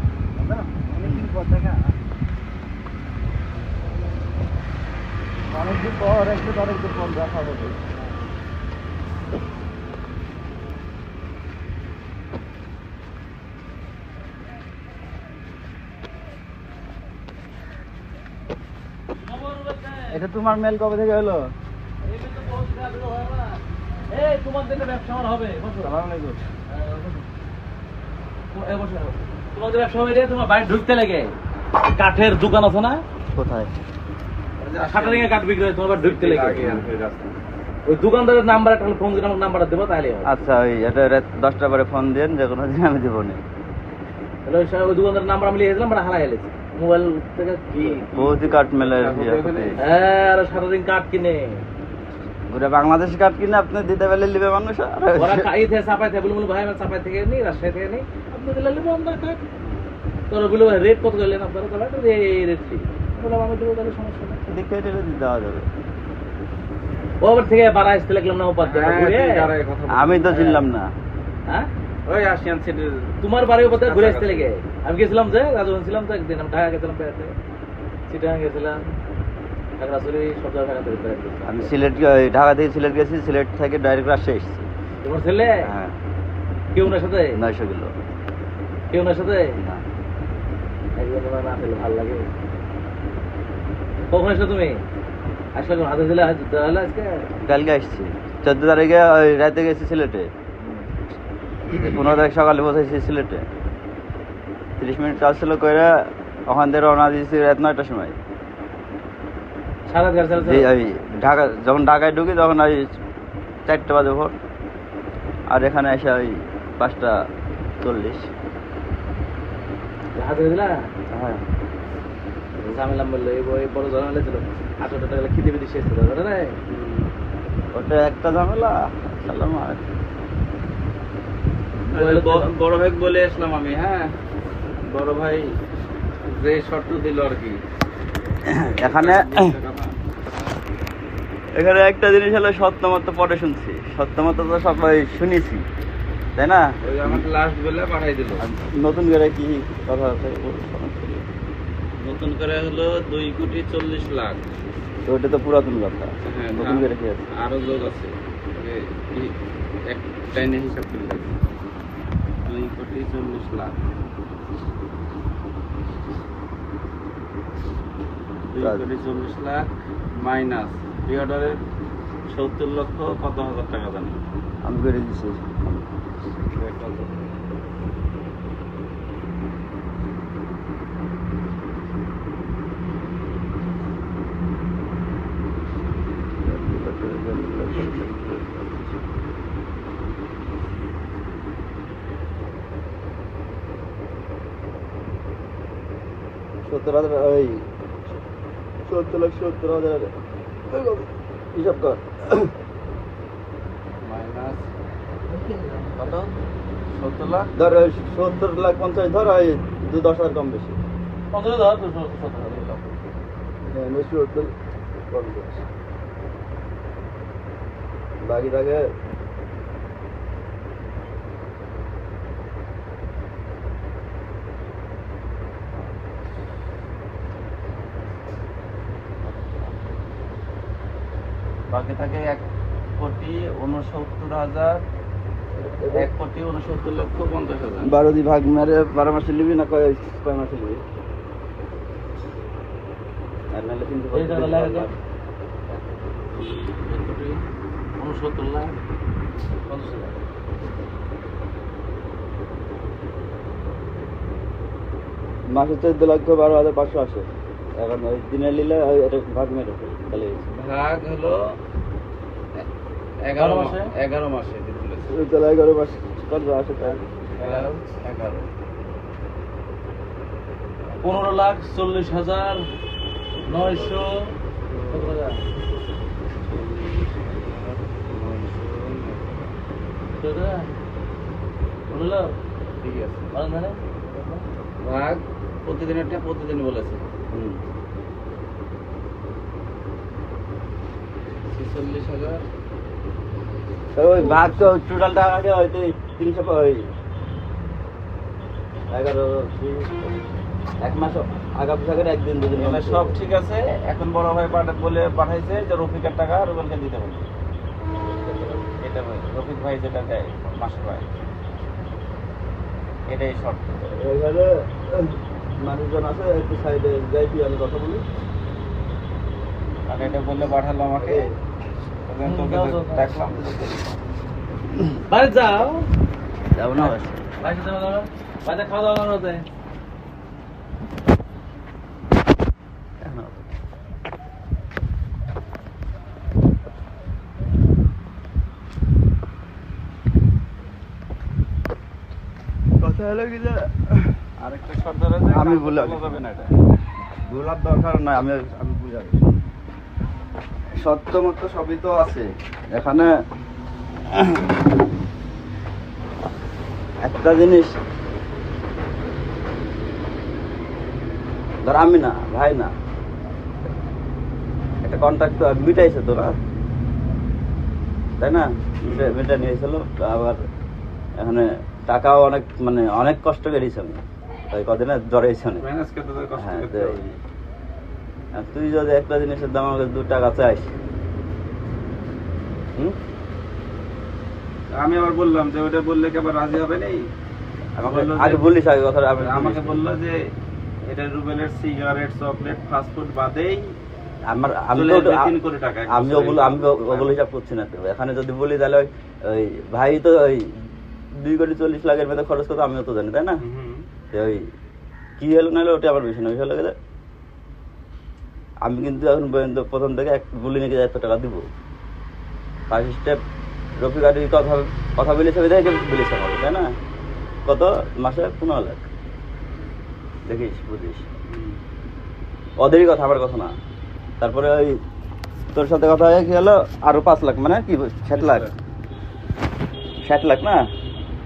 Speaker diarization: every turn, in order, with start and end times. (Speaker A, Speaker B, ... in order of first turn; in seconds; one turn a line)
Speaker A: 0.4-1.5
Speaker A: 5.5-7.8
Speaker B: 19.2-20.2
Speaker A: 20.1-21.6
Speaker B: 22.0-26.0
Speaker A: 25.8-26.4
Speaker B: 26.7-27.3
Speaker B: 28.5-31.4
Speaker B: 31.9-33.0
Speaker A: 33.3-33.7
Speaker C: 34.6-37.4
Speaker B: 34.9-36.9
Speaker B: 37.9-40.3
Speaker A: 40.2-43.4
Speaker B: 44.5-48.5
Speaker C: 47.7-49.9
Speaker A: 48.0-49.8
Speaker B: 49.8-51.7
Speaker A: 52.5-55.5
Speaker B: 55.2-59.4
Speaker B: 60.3-64.4
Speaker A: 64.5-65.7
Speaker B: 67.2-69.5
Speaker C: 68.6-70.3
Speaker A: 69.9-70.9
Speaker B: 70.3-70.7
Speaker C: 72.1-73.1
Speaker B: 73.2-77.4
Speaker C: 73.7-74.5
Speaker B: 78.1-79.0
Speaker B: 79.8-81.7
Speaker A: 81.4-84.7
Speaker B: 85.0-85.7
Speaker A: 85.6-86.0
Speaker B: 86.7-87.4
Speaker A: 87.3-87.9
Speaker B: 88.9-89.6
Speaker A: 89.6-89.8
Speaker B: 91.0-92.3
Speaker B: 94.1-94.8
Speaker B: 95.5-97.3
Speaker A: 97.4-100.3
Speaker B: 100.6-100.9
Speaker A: 101.7-103.5
Speaker A: 104.8-108.2
Speaker B: 109.9-110.7
Speaker A: 110.4-113.0
Speaker A: 113.7-114.4
Speaker A: 115.5-117.2
Speaker A: 117.8-118.3
Speaker B: 120.2-120.8
Speaker A: 121.1-121.4
Speaker B: 122.6-126.6
Speaker C: 126.7-127.1
Speaker A: 127.7-129.8
Speaker B: 131.9-132.5
Speaker C: 131.9-134.1
Speaker C: 134.8-135.5
Speaker C: 136.3-137.6
Speaker C: 138.4-140.0
Speaker A: 138.5-139.5
Speaker A: 141.6-145.7
Speaker A: 146.4-147.2
Speaker C: 146.8-148.4
Speaker A: 148.4-151.2
Speaker C: 152.0-154.4
Speaker A: 155.1-157.3
Speaker C: 156.2-159.4
Speaker C: 159.9-161.3
Speaker C: 162.4-163.9
Speaker C: 168.5-171.6
Speaker A: 168.6-168.8
Speaker C: 172.3-174.2
Speaker A: 174.6-175.9
Speaker C: 176.6-177.2
Speaker A: 186.4-188.8
Speaker A: 196.7-197.7
Speaker A: 198.8-200.1
Speaker A: 200.7-202.5
Speaker C: 204.0-204.7
Speaker C: 206.0-206.3
Speaker C: 206.9-207.5
Speaker A: 207.6-210.8
Speaker B: 211.3-212.6
Speaker C: 212.4-213.0
Speaker A: 213.7-214.5
Speaker A: 215.1-215.6
Speaker A: 218.2-218.9
Speaker C: 231.7-232.4
Speaker C: 233.0-234.8
Speaker A: 235.6-236.1
Speaker C: 235.9-237.9
Speaker A: 237.8-240.8
Speaker A: 243.5-244.9
Speaker B: 244.1-244.9
Speaker C: 246.3-247.4
Speaker B: 248.0-248.8
Speaker B: 249.7-250.2
Speaker A: 255.5-260.4
Speaker C: 260.5-261.6
Speaker C: 263.2-265.1
Speaker B: 263.4-263.9
Speaker A: 265.1-267.1
Speaker C: 267.4-268.5
Speaker B: 267.4-267.9
Speaker B: 271.0-272.7
Speaker C: 273.4-274.1
Speaker B: 273.4-274.4
Speaker C: 274.7-275.2
Speaker B: 274.9-275.4
Speaker C: 276.4-279.5
Speaker B: 280.2-280.7
Speaker B: 281.9-282.4
Speaker C: 282.8-283.3
Speaker B: 283.3-284.4
Speaker C: 284.8-287.0
Speaker A: 287.3-287.6
Speaker C: 291.5-292.4
Speaker A: 293.9-296.9
Speaker C: 294.2-294.6
Speaker A: 298.9-300.2
Speaker A: 300.8-303.2
Speaker C: 302.6-307.2
Speaker C: 308.8-311.1
Speaker C: 313.1-313.9
Speaker A: 313.9-318.0
Speaker C: 319.9-321.3
Speaker A: 321.0-321.4
Speaker C: 322.1-324.0
Speaker B: 322.2-323.1
Speaker B: 325.1-325.9
Speaker A: 326.5-327.2
Speaker B: 326.8-329.4
Speaker A: 333.0-333.5
Speaker A: 342.8-344.2
Speaker C: 344.4-346.5
Speaker A: 345.3-346.2
Speaker A: 347.2-349.2
Speaker A: 350.8-353.1
Speaker A: 354.1-354.5
Speaker A: 357.0-357.8
Speaker A: 361.6-362.7
Speaker A: 364.8-366.4
Speaker A: 368.2-370.4
Speaker C: 368.8-369.2
Speaker A: 371.2-375.6
Speaker C: 375.6-377.0
Speaker A: 376.4-377.2
Speaker A: 378.3-380.7
Speaker C: 384.7-387.1
Speaker A: 387.8-389.9
Speaker C: 387.8-388.5
Speaker C: 389.2-390.2
Speaker C: 390.9-393.8
Speaker A: 394.3-395.3
Speaker C: 394.7-397.2
Speaker A: 395.9-400.6
Speaker A: 401.1-403.4
Speaker C: 403.4-403.9
Speaker A: 404.1-404.5
Speaker A: 405.2-406.8
Speaker A: 408.6-411.5
Speaker A: 412.7-413.2
Speaker A: 413.8-416.8
Speaker A: 417.4-418.9
Speaker A: 420.2-421.1
Speaker C: 421.3-421.6
Speaker A: 422.6-423.5
Speaker A: 424.2-424.8
Speaker A: 425.5-428.4
Speaker C: 428.1-428.5
Speaker A: 430.1-430.6